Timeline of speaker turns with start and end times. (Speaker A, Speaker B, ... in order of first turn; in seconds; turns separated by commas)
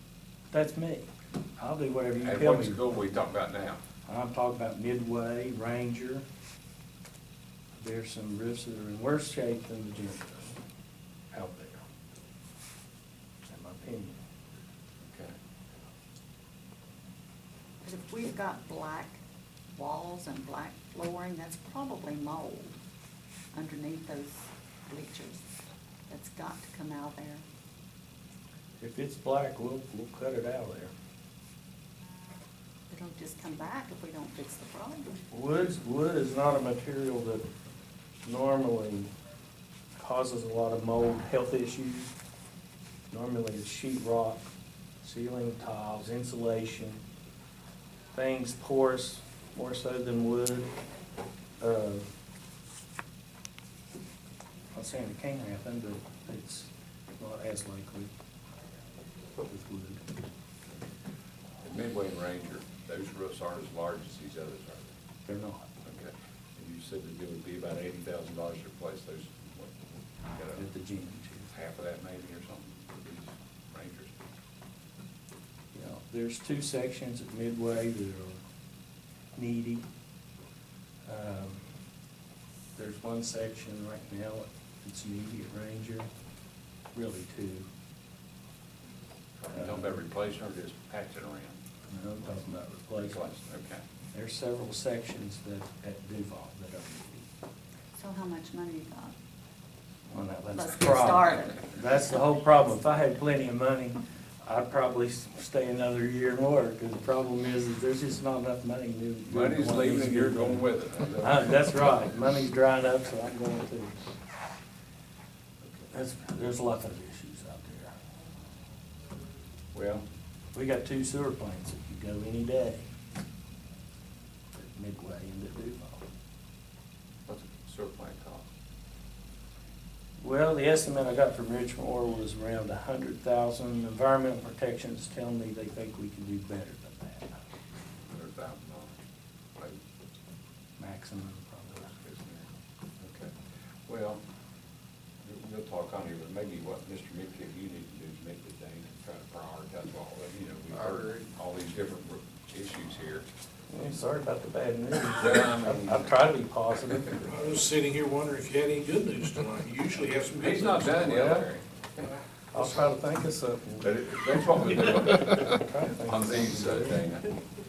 Speaker A: 0.5-3.0, Speaker B: 2.2-3.8, Speaker A: 4.1-6.2, Speaker A: 7.8-10.6, Speaker A: 11.3-11.8, Speaker A: 13.4-14.2, Speaker B: 15.0-15.3, Speaker C: 17.8-19.2, Speaker C: 19.8-22.8, Speaker C: 23.5-25.4, Speaker C: 26.1-27.4, Speaker A: 28.8-30.9, Speaker C: 32.9-35.2, Speaker A: 35.3-37.4, Speaker A: 38.2-39.1, Speaker A: 40.0-42.1, Speaker A: 43.1-44.4, Speaker A: 45.0-47.0, Speaker A: 48.1-50.7, Speaker A: 51.6-52.1, Speaker A: 54.7-58.1, Speaker A: 59.4-60.0, Speaker B: 61.6-65.0, Speaker A: 65.3-65.7, Speaker B: 65.8-69.8, Speaker B: 70.3-70.6, Speaker A: 70.5-71.5, Speaker B: 71.5-74.2, Speaker A: 75.7-78.4, Speaker A: 79.3-79.8, Speaker A: 81.0-81.6, Speaker A: 82.8-86.1, Speaker A: 86.9-87.7, Speaker B: 89.4-91.6, Speaker A: 89.5-90.0, Speaker A: 91.9-93.2, Speaker B: 93.0-93.8, Speaker A: 94.1-97.3, Speaker C: 98.0-99.1, Speaker A: 100.1-110.7, Speaker C: 100.6-101.7, Speaker B: 109.3-111.6, Speaker A: 111.2-114.0, Speaker A: 115.9-117.9, Speaker B: 119.7-120.0, Speaker A: 120.5-122.8, Speaker A: 124.5-126.0, Speaker B: 127.3-128.5, Speaker A: 130.2-137.4, Speaker B: 138.1-139.0, Speaker A: 140.8-141.9, Speaker B: 141.9-142.5, Speaker B: 143.0-143.3, Speaker B: 143.9-144.2, Speaker B: 145.2-153.2, Speaker A: 153.7-157.2, Speaker B: 155.2-156.2, Speaker D: 157.2-161.1, Speaker B: 160.4-162.2, Speaker A: 161.0-161.5, Speaker A: 162.5-163.9, Speaker B: 163.8-167.3, Speaker A: 164.6-167.0